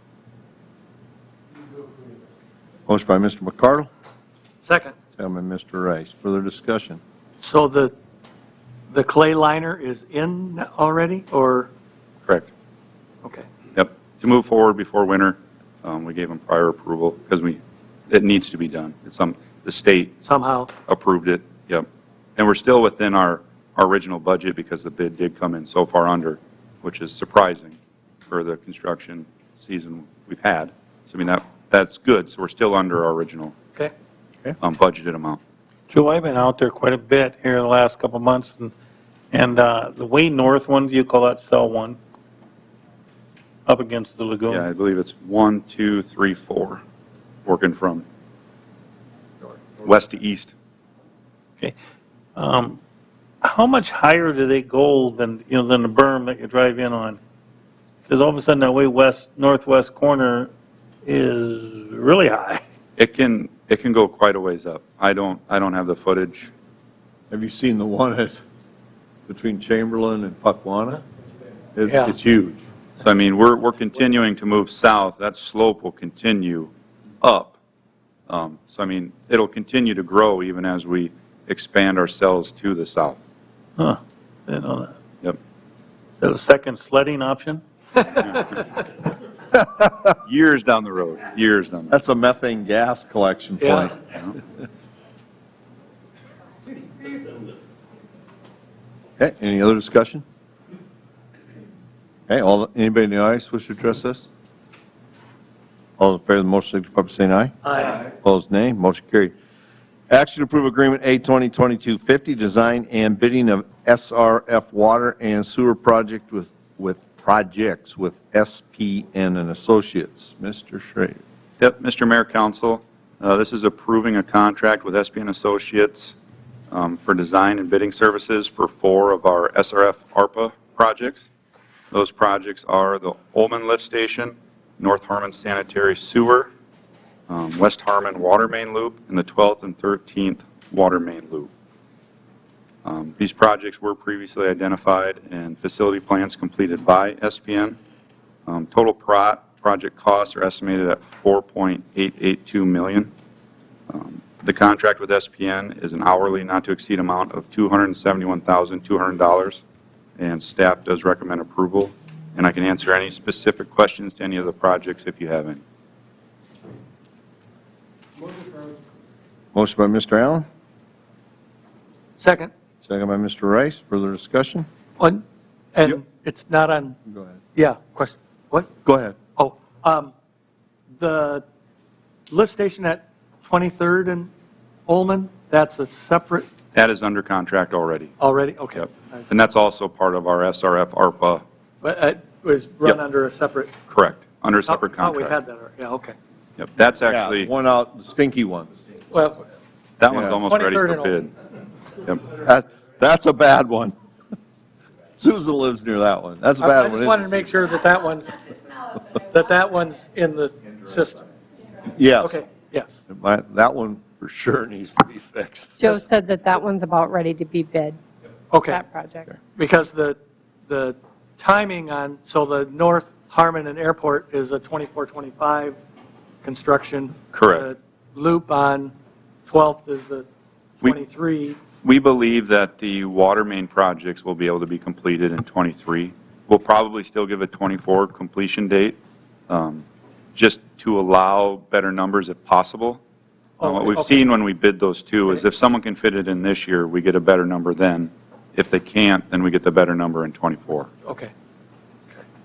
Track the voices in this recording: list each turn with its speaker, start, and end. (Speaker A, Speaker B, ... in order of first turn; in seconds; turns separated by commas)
Speaker A: 2.9-3.9, Speaker B: 4.6-5.0, Speaker A: 5.2-7.0, Speaker B: 7.4-8.0, Speaker B: 8.9-11.7, Speaker C: 13.7-20.2, Speaker B: 20.2-20.7, Speaker C: 20.9-21.9, Speaker C: 22.4-27.8, Speaker C: 28.3-33.6, Speaker C: 34.6-35.4, Speaker D: 35.9-38.7, Speaker D: 39.3-42.0, Speaker D: 43.7-44.7, Speaker C: 44.5-46.8, Speaker C: 47.5-48.0, Speaker C: 49.8-50.5, Speaker D: 52.4-52.8, Speaker D: 53.4-57.2, Speaker D: 58.1-60.5, Speaker D: 61.0-62.6, Speaker C: 63.0-66.5, Speaker A: 67.3-68.4, Speaker A: 69.3-71.0, Speaker A: 71.8-72.6, Speaker B: 71.9-72.2, Speaker C: 73.0-77.6, Speaker C: 78.3-83.2, Speaker D: 83.8-84.9, Speaker D: 86.2-87.6, Speaker C: 90.2-92.0, Speaker A: 91.9-94.0, Speaker B: 93.6-93.9, Speaker A: 99.2-100.2, Speaker A: 102.3-104.3, Speaker A: 106.0-109.3, Speaker B: 107.6-108.0, Speaker A: 110.1-121.2, Speaker C: 121.6-126.2, Speaker C: 126.7-131.3, Speaker C: 131.9-136.5, Speaker C: 137.3-141.5, Speaker C: 142.8-147.8, Speaker C: 148.5-153.1, Speaker C: 153.9-159.6, Speaker C: 160.2-165.6, Speaker A: 169.5-170.4, Speaker B: 172.2-172.5, Speaker A: 172.8-174.7, Speaker B: 175.8-177.0, Speaker A: 177.1-177.4, Speaker B: 177.6-178.7, Speaker A: 178.8-179.2, Speaker B: 179.4-180.1, Speaker B: 181.0-181.4, Speaker B: 182.3-184.3, Speaker B: 184.9-186.5, Speaker C: 186.7-188.1, Speaker B: 188.2-189.3, Speaker C: 188.8-191.4, Speaker B: 191.8-193.8, Speaker C: 193.9-195.4, Speaker B: 194.7-196.2, Speaker C: 196.6-197.5, Speaker A: 197.1-198.7, Speaker B: 199.1-199.4, Speaker C: 200.0-201.3, Speaker A: 200.1-200.4, Speaker B: 200.5-201.2, Speaker A: 202.3-203.9, Speaker A: 205.2-207.5, Speaker B: 206.6-211.3, Speaker A: 211.8-212.4, Speaker B: 212.2-212.9, Speaker A: 213.1-215.9, Speaker E: 215.8-218.0, Speaker B: 218.5-218.8, Speaker E: 218.6-219.3, Speaker B: 219.6-225.8, Speaker B: 226.4-228.9, Speaker C: 227.3-227.7, Speaker B: 229.5-230.3, Speaker B: 230.8-231.6, Speaker C: 231.8-239.0, Speaker C: 239.5-243.0, Speaker B: 243.6-244.4, Speaker C: 243.6-250.9, Speaker B: 251.1-251.3